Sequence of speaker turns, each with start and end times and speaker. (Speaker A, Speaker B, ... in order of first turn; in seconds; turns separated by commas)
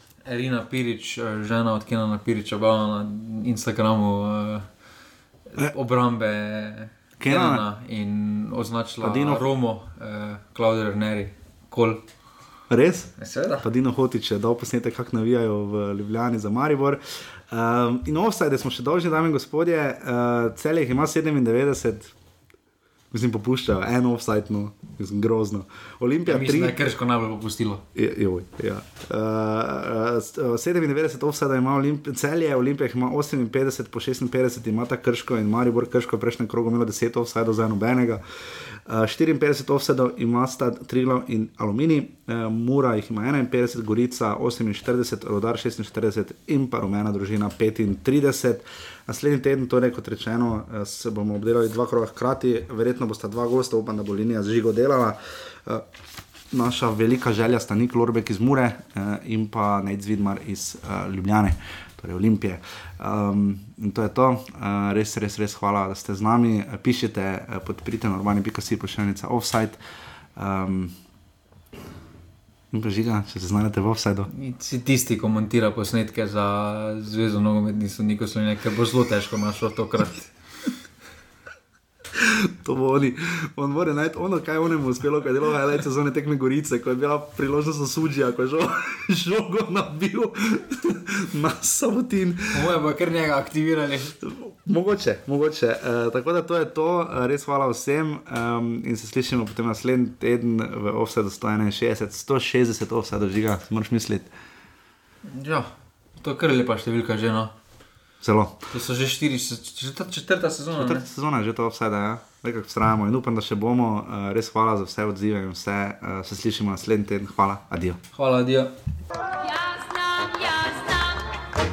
Speaker A: 0.2-4.7, Speaker A: 5.5-12.0, Speaker B: 7.2-7.7, Speaker B: 9.0-9.5, Speaker B: 12.7-22.1, Speaker A: 13.2-13.7, Speaker B: 23.1-26.8, Speaker A: 26.3-27.8, Speaker B: 27.9-38.2, Speaker B: 38.9-55.9, Speaker B: 56.5-69.8, Speaker B: 70.4-70.9, Speaker B: 72.7-74.3, Speaker A: 74.3-80.3, Speaker B: 82.2-92.7, Speaker A: 92.5-94.2, Speaker B: 94.2-104.3, Speaker A: 105.3-107.5, Speaker B: 108.2-108.7, Speaker A: 108.7-111.1, Speaker B: 110.8-118.0, Speaker A: 118.2-118.7, Speaker C: 119.4-121.4